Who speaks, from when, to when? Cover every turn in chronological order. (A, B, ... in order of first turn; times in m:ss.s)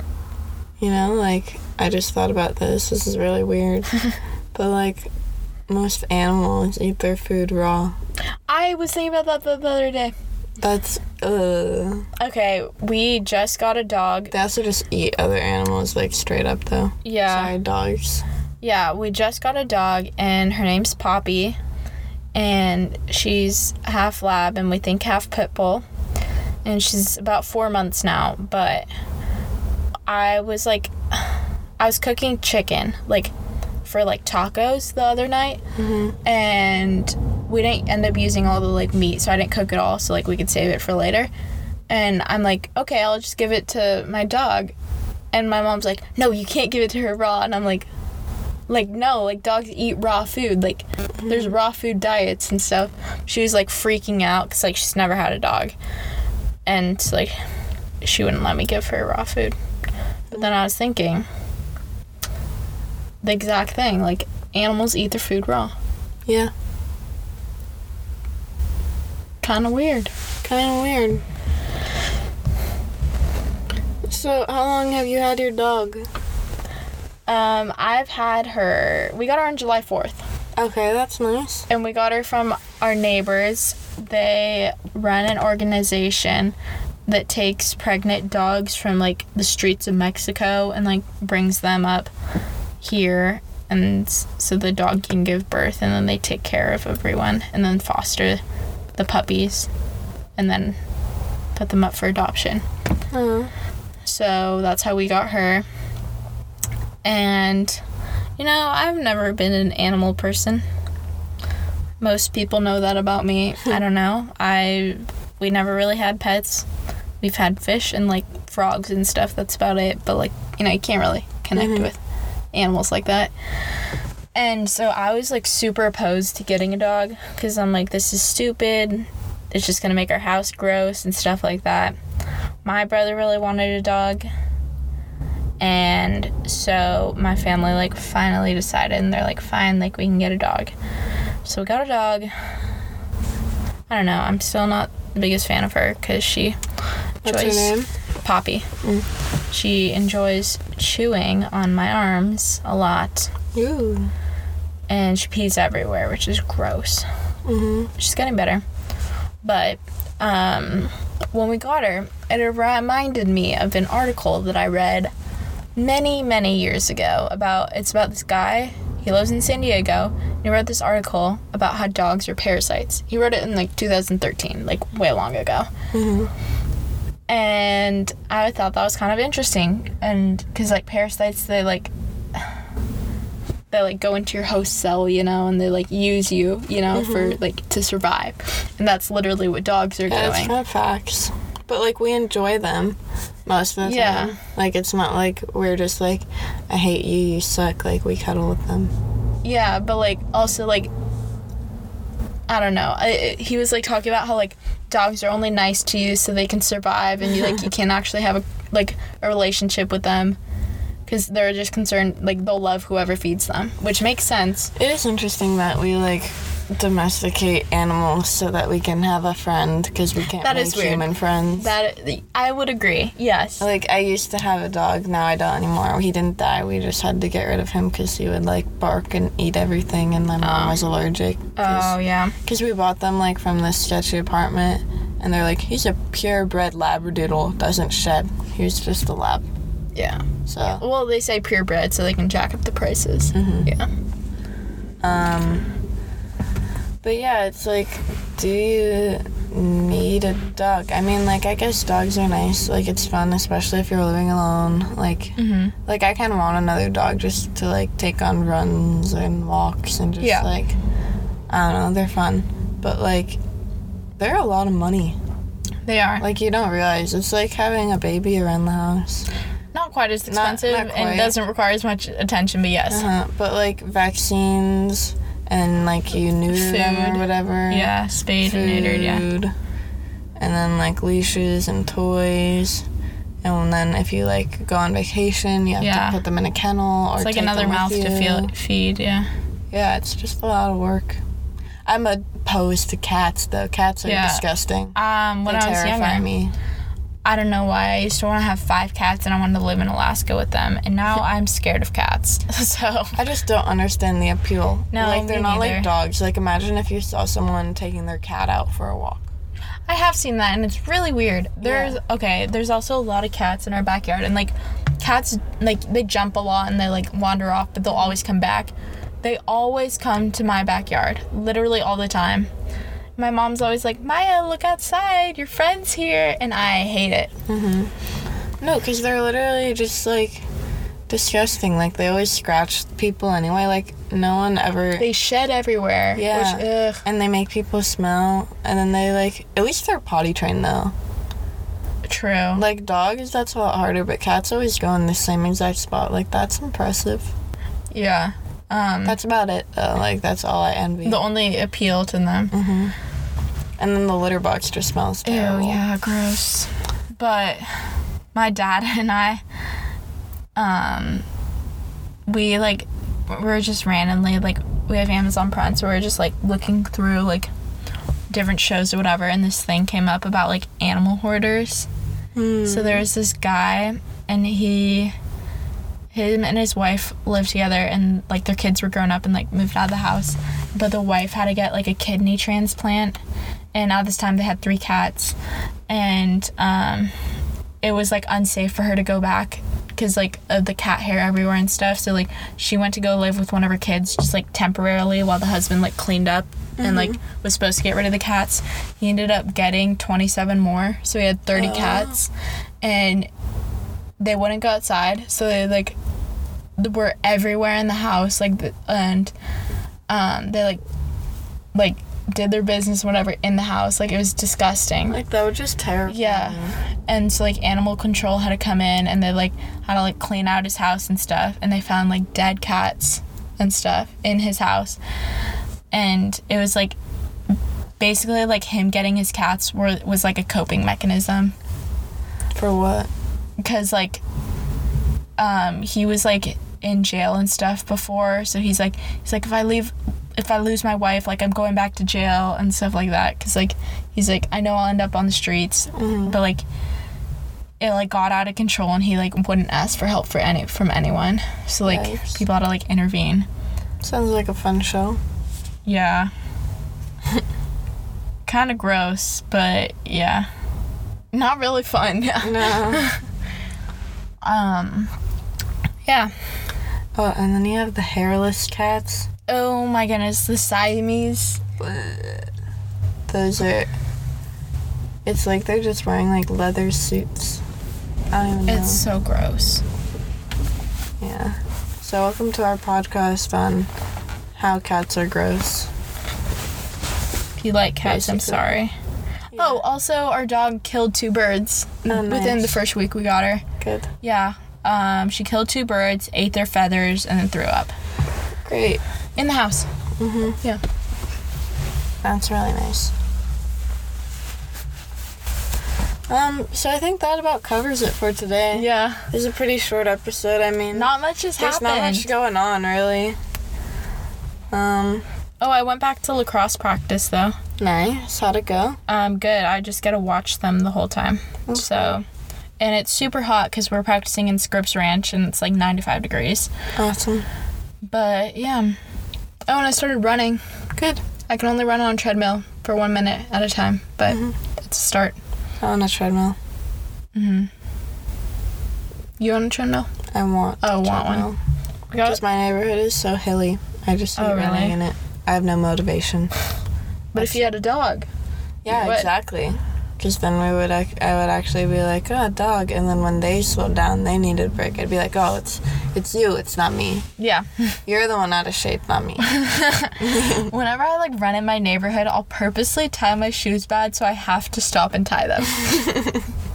0:00.8-0:05.1 A
0:05.7-0:07.9 A
0:08.5-0:10.1 B
0:10.6-0:12.1 A
0:12.2-0:14.3 B
0:14.3-0:18.2 A
0:17.0-0:17.5 B
0:18.6-0:21.6 B
0:22.3-0:25.8 B
0:26.6-0:28.9 B
0:30.1-0:33.3 B
0:33.8-0:35.6 B
0:35.8-0:36.2 A
0:36.2-0:41.3 B
0:41.9-0:44.7 B
0:45.3-0:47.9 B
0:48.7-0:55.7 B
0:51.2-0:51.5 A
0:56.6-0:57.4 B
0:58.0-0:59.6 B
1:00.3-1:01.2 B
1:03.2-1:05.7 B
1:06.2-1:06.5 A
1:09.4-1:10.1 B
1:10.4-1:11.2 A
1:14.0-1:16.0 A
1:17.3-1:20.2 B
1:20.6-1:21.7 A
1:21.7-1:26.5 B
1:27.1-1:32.1 B
1:32.8-1:38.4 B
1:38.9-1:39.7 B
1:40.4-1:40.8 B
1:41.6-1:42.6 B
1:43.1-1:43.5 A
1:44.0-1:45.6 B
1:47.0-1:47.8 B
1:48.4-1:50.6 B
1:52.0-1:56.6 B
1:57.2-2:02.0 B
2:01.6-2:01.9 A
2:02.5-2:03.3 B
2:04.3-2:12.0 B
2:12.6-2:14.2 B
2:15.6-2:20.7 B
2:21.4-2:22.3 B
2:23.9-2:26.6 B
2:27.2-2:27.9 A
2:27.2-2:28.7 B
2:29.5-2:33.3 B
2:33.5-2:34.1 A
2:34.9-2:37.0 B
2:37.4-2:37.9 A
2:38.0-2:38.6 B
2:39.4-2:45.1 B
2:45.8-2:55.7 B
2:55.9-2:56.3 A
2:57.3-3:01.9 B
3:03.7-3:10.5 B
3:06.9-3:07.4 A
3:10.1-3:18.9 A
3:13.8-3:14.4 B
3:19.4-3:20.9 B
3:22.5-3:30.4 B
3:31.1-3:34.7 B
3:34.8-3:41.7 A
3:40.4-3:43.7 B
3:43.6-3:59.4 A
3:50.4-3:50.8 B
3:51.6-3:52.4 B
3:59.9-4:03.9 B
4:00.5-4:00.8 A
4:03.3-4:03.7 A
4:05.0-4:05.7 A
4:07.0-4:20.8 A
4:15.4-4:15.7 B
4:20.2-4:20.5 B
4:21.5-4:23.4 A
4:24.2-4:25.2 A
4:25.8-4:26.2 B
4:26.2-4:29.3 A
4:29.7-4:33.1 B
4:30.3-4:31.3 A
4:32.9-4:37.9 A
4:36.5-4:39.2 B
4:38.4-4:39.5 A
4:40.4-4:42.8 A
4:43.4-4:48.5 A
4:45.8-4:46.2 B
4:47.2-4:49.3 B
4:49.7-4:51.2 A
4:51.8-4:54.9 A
4:54.0-4:56.3 B
4:55.4-4:56.5 A
4:57.2-5:03.2 B
5:03.2-5:09.3 A
5:04.9-5:05.9 B
5:09.9-5:18.7 B
5:11.6-5:12.0 A
5:19.2-5:22.5 B
5:23.2-5:27.3 B
5:27.5-5:27.9 A
5:28.6-5:30.4 A
5:31.1-5:35.1 A
5:35.0-5:37.0 B
5:36.1-5:40.9 A
5:42.1-5:42.6 B
5:42.5-5:47.3 A
5:47.9-5:49.2 B
5:49.0-5:51.2 A
5:51.0-5:52.5 B
5:52.5-5:52.9 A
5:53.8-5:55.8 A
5:55.2-5:59.4 B
6:00.6-6:01.2 B
6:02.3-6:07.5 B
6:08.3-6:11.9 B
6:12.3-6:13.0 A
6:12.6-6:15.1 B
6:16.1-6:23.2 B
6:23.7-6:25.3 B
6:25.9-6:27.1 B
6:27.8-6:42.3 B
6:36.8-6:37.2 A
6:41.5-6:42.2 A
6:42.8-6:43.3 B
6:44.2-6:46.0 B
6:46.8-6:49.3 B
6:50.1-6:50.8 B
6:51.7-6:55.2 B
6:55.1-6:56.8 A
6:56.1-7:05.0 B
7:05.9-7:07.0 B
7:08.0-7:11.5 B
7:12.5-7:13.1 A
7:13.6-7:14.2 B
7:15.4-7:26.6 B
7:25.9-7:26.4 A
7:27.8-7:33.5 B
7:31.8-7:32.4 A
7:34.0-7:35.2 A
7:35.8-7:36.3 B
7:38.4-7:40.5 B
7:41.3-7:43.2 B
7:42.4-7:43.1 A
7:44.4-7:45.1 B
7:46.0-7:46.3 B
7:47.2-7:49.3 A
7:49.5-7:51.6 B
7:51.8-7:52.5 A
7:53.3-7:53.9 A
7:55.2-7:57.6 A
7:58.3-7:59.0 A
7:58.7-7:59.8 B
8:01.2-8:03.9 A
8:04.6-8:05.9 A
8:07.6-8:08.9 B
8:08.0-8:08.8 A
8:09.5-8:09.8 A
8:09.5-8:13.6 B
8:12.1-8:12.7 A
8:13.8-8:14.1 A
8:14.2-8:17.9 B
8:18.6-8:19.0 A
8:19.4-8:19.9 B
8:20.2-8:20.6 A
8:22.2-8:23.1 A
8:26.3-8:33.4 A
8:28.7-8:29.3 B
8:30.9-8:32.3 B
8:34.7-8:35.2 A
8:35.6-8:37.6 B
8:37.8-8:39.0 A
8:39.1-8:42.2 B
8:41.7-8:42.2 A
8:42.8-8:46.7 B
8:47.0-8:47.5 A
8:48.1-8:49.0 B
8:49.7-8:50.6 B
8:51.0-8:51.2 A
8:51.5-8:55.4 B
8:55.8-8:56.6 A
8:57.3-8:57.7 B
8:59.4-9:00.1 B
9:00.3-9:01.6 A
9:00.8-9:01.5 B
9:02.1-9:02.4 B
9:02.2-9:06.5 A
9:04.4-9:05.0 B
9:07.3-9:08.3 B
9:07.4-9:07.7 A
9:08.8-9:17.3 A
9:08.9-9:09.3 B
9:17.4-9:18.0 B
9:18.1-9:19.5 A
9:19.4-9:26.1 B
9:20.2-9:20.7 A
9:25.8-9:26.4 A